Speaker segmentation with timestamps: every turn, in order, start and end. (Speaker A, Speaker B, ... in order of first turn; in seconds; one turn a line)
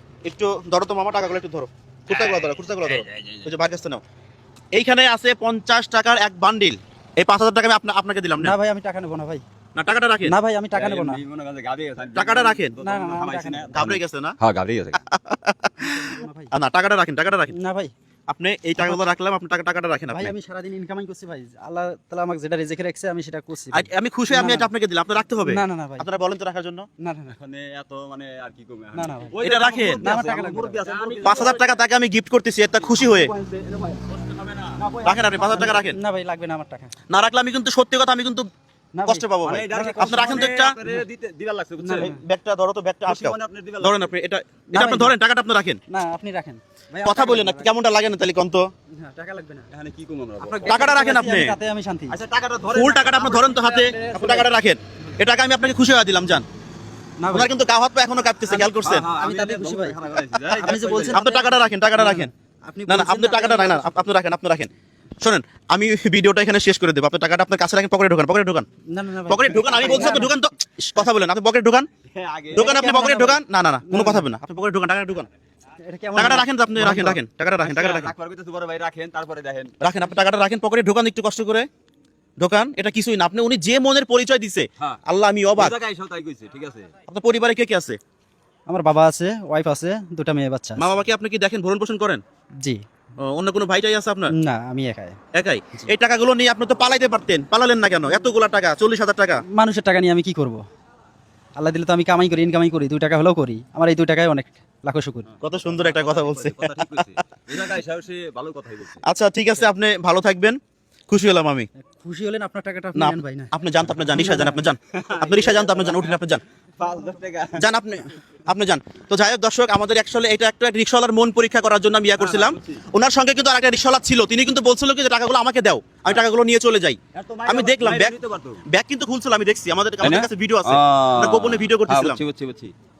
Speaker A: 0.2-4.0
Speaker B: 2.1-3.5
Speaker A: 4.7-8.6
Speaker C: 8.4-9.4
Speaker A: 9.8-10.3
Speaker C: 10.2-11.2
Speaker B: 10.8-15.0
Speaker A: 12.1-12.8
Speaker C: 12.8-13.8
Speaker A: 13.7-14.4
Speaker A: 15.1-17.5
Speaker C: 15.8-16.5
Speaker C: 17.5-17.9
Speaker A: 18.3-20.3
Speaker C: 20.1-24.7
Speaker A: 23.7-26.9
Speaker C: 25.4-26.1
Speaker C: 27.0-27.4
Speaker B: 27.3-31.7
Speaker C: 28.9-29.4
Speaker A: 29.4-30.2
Speaker C: 30.0-30.9
Speaker A: 31.2-33.3
Speaker B: 32.8-35.8
Speaker A: 35.0-36.0
Speaker C: 35.4-36.9
Speaker A: 37.1-38.5
Speaker C: 38.9-41.0
Speaker A: 39.0-40.8
Speaker B: 39.4-42.1
Speaker C: 41.8-42.2
Speaker A: 42.0-45.8
Speaker B: 43.1-44.1
Speaker C: 44.7-45.1
Speaker C: 45.9-47.7
Speaker A: 47.0-48.7
Speaker C: 48.9-49.7
Speaker B: 49.7-50.8
Speaker C: 50.4-52.2
Speaker A: 50.7-51.6
Speaker B: 52.1-54.5
Speaker A: 52.7-56.5
Speaker C: 57.2-57.5
Speaker A: 57.3-59.1
Speaker C: 58.5-64.1
Speaker B: 58.8-61.2
Speaker A: 60.6-62.3
Speaker A: 62.9-64.7
Speaker A: 65.2-68.7
Speaker C: 68.9-70.3
Speaker A: 69.3-71.9
Speaker B: 69.8-70.2
Speaker B: 72.1-72.9
Speaker A: 72.5-75.3
Speaker C: 72.5-74.3
Speaker C: 75.8-77.2
Speaker A: 76.2-78.1
Speaker B: 77.6-79.7
Speaker A: 79.8-81.7
Speaker A: 82.4-85.8
Speaker B: 85.6-86.9
Speaker A: 87.1-88.0
Speaker C: 88.7-91.0
Speaker A: 90.8-92.2
Speaker A: 93.2-94.3
Speaker C: 94.4-95.2
Speaker A: 95.3-99.4
Speaker C: 99.5-100.6
Speaker C: 101.6-105.3
Speaker B: 105.4-109.0
Speaker A: 105.4-107.2
Speaker A: 109.0-110.6
Speaker A: 111.1-111.7
Speaker C: 112.0-113.5
Speaker A: 113.0-116.4
Speaker C: 114.1-114.6
Speaker B: 115.0-116.2
Speaker B: 116.8-117.6
Speaker A: 117.6-128.2
Speaker B: 122.2-122.8
Speaker B: 127.1-128.6
Speaker A: 128.7-132.2
Speaker B: 130.0-132.7